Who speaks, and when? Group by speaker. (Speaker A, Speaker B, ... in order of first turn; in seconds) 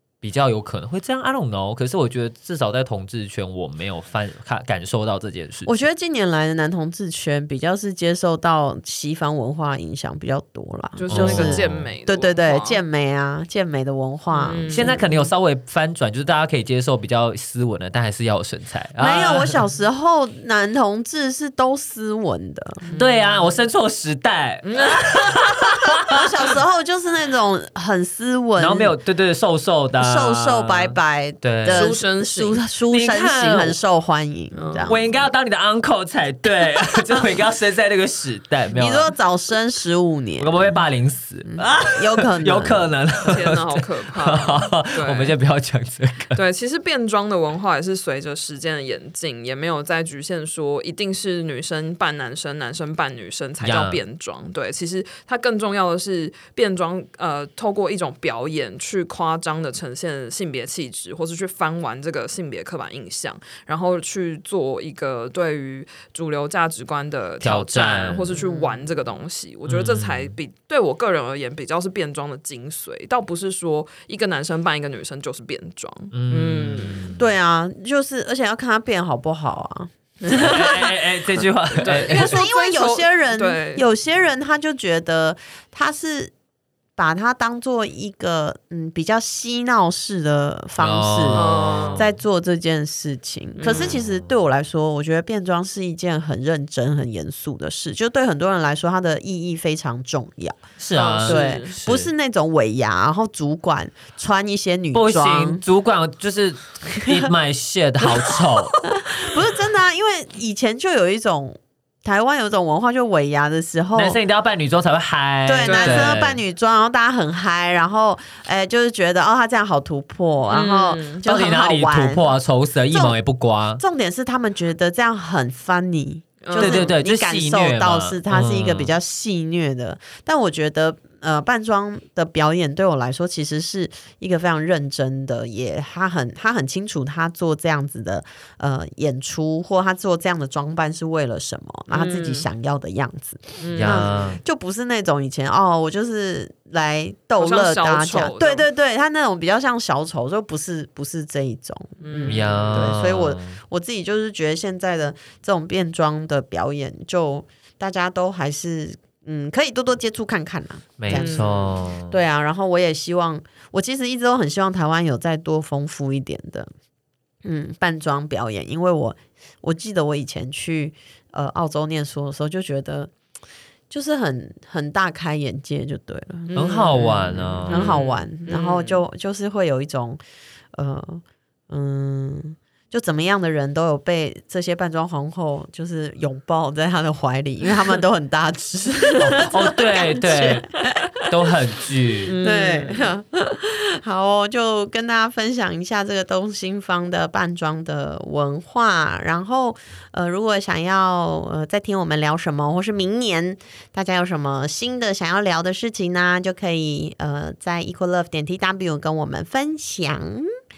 Speaker A: 0.2-5.8, 11.1-11.9, 14.7-19.6, 23.0-26.2, 28.6-32.0, 32.9-33.8, 34.9-39.1, 40.4-46.4, 53.6-54.0, 67.4-68.3, 69.7-70.4, 76.1-77.2, 80.3-82.4, 90.8-92.2, 93.7-94.3, 100.8-102.1, 104.9-108.8, 114.0-116.4, 121.2-123.8, 126.6-128.9, 143.8-144.4, 152.2-153.6, 161.0-162.2, 176.6-178.0, 189.2-192.3
Speaker B: 5.7-15.1, 19.0-22.9, 26.1-28.9, 29.9-35.1, 38.7-40.8, 41.5-42.9, 68.4-68.9, 77.2-81.0, 82.0-86.3, 87.0-100.6, 101.2-105.6, 108.9-114.2, 115.5-122.4, 122.9-123.2, 123.8-166.7, 167.4-173.1, 173.9-177.1, 177.7-180.2, 180.7-190.9, 192.4-210.5
Speaker C: 11.0-12.8, 14.3-15.0, 22.9-23.6, 24.6-25.5, 31.7-32.6, 34.5-35.0, 43.2-45.4, 46.4-77.1, 80.2-80.9, 81.8-83.9, 91.3-92.1, 93.6-94.0, 101.0-101.7, 108.7-109.0, 115.7-116.2, 120.5-121.3, 126.4-126.9, 141.9-142.5, 143.6-144.2, 147.4-148.7, 152.0-152.9, 161.1-161.7, 176.5-179.0, 192.2-193.1